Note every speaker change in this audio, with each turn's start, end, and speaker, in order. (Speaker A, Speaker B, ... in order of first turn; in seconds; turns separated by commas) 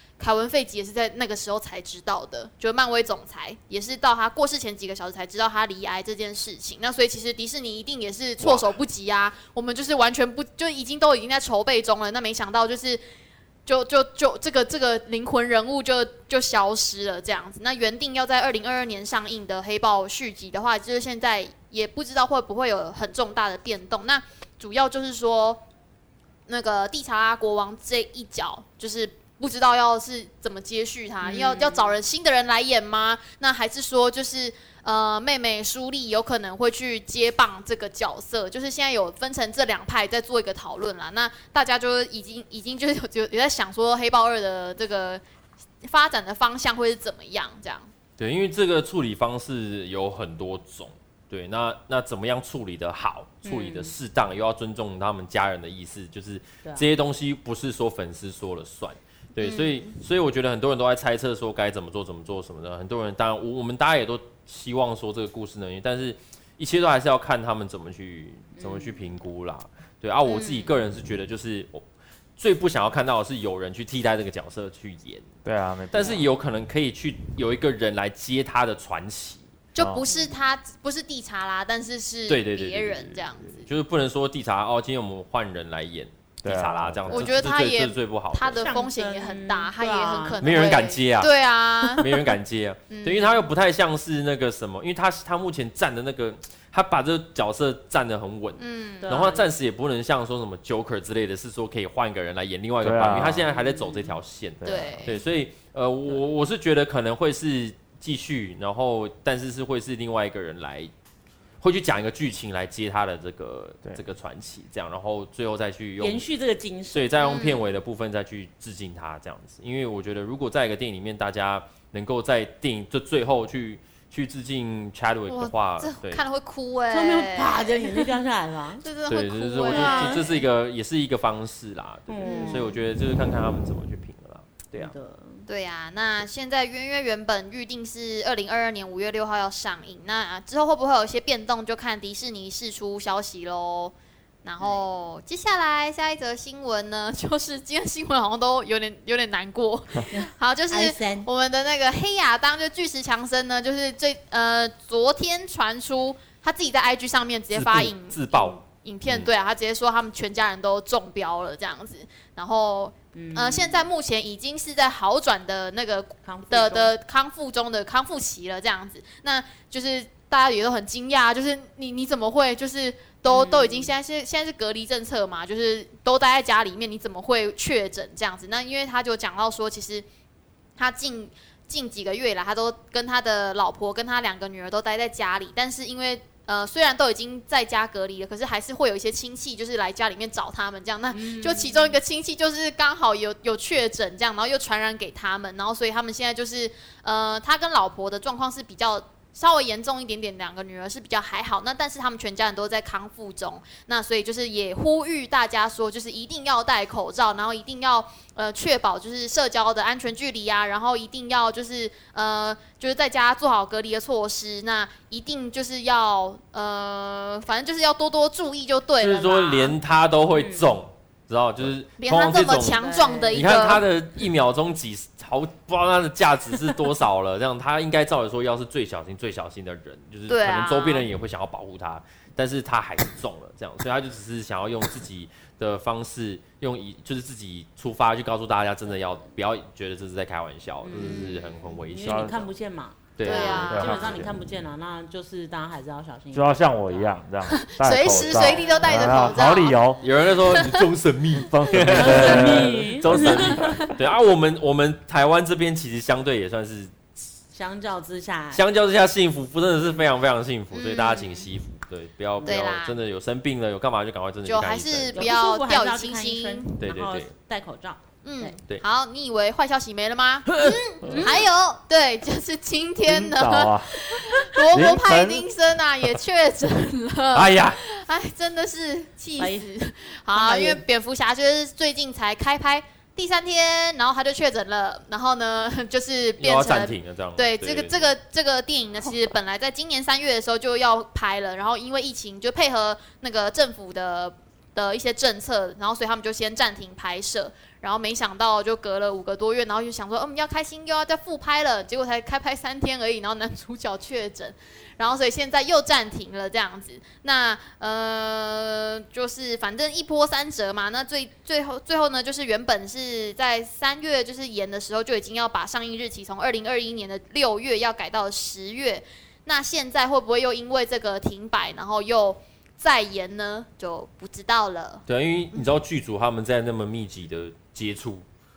Speaker A: 0.2-13.0, Speaker B: 8.4-8.8, Speaker A: 13.7-25.6, Speaker A: 26.5-45.2, Speaker C: 31.2-31.9, Speaker A: 45.8-47.9, Speaker B: 48.2-71.8, Speaker C: 53.4-53.9, Speaker A: 59.4-59.9, Speaker C: 68.5-69.0, Speaker A: 70.2-70.8, Speaker B: 72.4-75.3, Speaker D: 75.4-76.3, Speaker B: 75.9-79.5, Speaker A: 79.7-83.7, Speaker D: 79.8-80.0, Speaker C: 80.0-80.4, Speaker B: 82.3-88.7, Speaker D: 86.4-87.4, Speaker A: 87.1-92.2, Speaker C: 88.5-90.8, Speaker B: 90.4-91.3, Speaker B: 92.0-110.9, Speaker A: 92.9-93.5, Speaker A: 98.6-99.2, Speaker C: 99.0-99.5, Speaker D: 102.8-103.5, Speaker C: 103.4-104.2, Speaker D: 104.6-105.1, Speaker A: 104.6-105.2, Speaker B: 111.6-116.2, Speaker C: 116.0-117.1, Speaker B: 116.9-126.2, Speaker A: 117.2-117.6, Speaker A: 125.3-128.1, Speaker C: 126.9-128.8, Speaker A: 128.8-130.4, Speaker B: 129.1-134.9, Speaker C: 129.6-130.3, Speaker C: 132.1-132.8, Speaker A: 132.2-132.8, Speaker C: 134.7-135.5, Speaker A: 135.5-180.1, Speaker C: 150.1-151.3, Speaker B: 157.5-159.3, Speaker C: 163.1-163.9, Speaker C: 166.2-166.9, Speaker C: 173.3-173.9, Speaker A: 180.8-219.8, Speaker C: 191.1-192.0, Speaker B: 219.0-242.3, Speaker C: 220.3-220.7, Speaker A: 222.0-223.8, Speaker C: 222.6-223.8, Speaker A: 230.3-231.1, Speaker C: 240.8-247.1, Speaker A: 241.0-241.6, Speaker D: 241.9-242.5, Speaker B: 243.2-244.2, Speaker A: 243.2-244.0, Speaker D: 243.7-244.3, Speaker D: 246.3-250.0, Speaker A: 247.5-249.8, Speaker C: 248.1-249.4, Speaker B: 250.0-256.9, Speaker A: 250.3-250.9, Speaker D: 251.3-253.8, Speaker C: 251.9-253.6, Speaker A: 253.6-253.9, Speaker C: 257.5-258.6, Speaker B: 258.5-265.3, Speaker A: 260.7-261.5, Speaker A: 262.4-263.0, Speaker A: 264.4-266.7, Speaker C: 265.1-268.6, Speaker B: 266.8-267.3, Speaker A: 268.2-325.6, Speaker B: 270.5-270.8, Speaker C: 271.1-271.4, Speaker D: 273.0-274.0, Speaker C: 274.6-274.9, Speaker D: 274.7-275.5, Speaker B: 277.3-277.8, Speaker C: 279.4-279.7, Speaker C: 280.3-280.8, Speaker B: 286.4-288.1, Speaker B: 325.1-328.2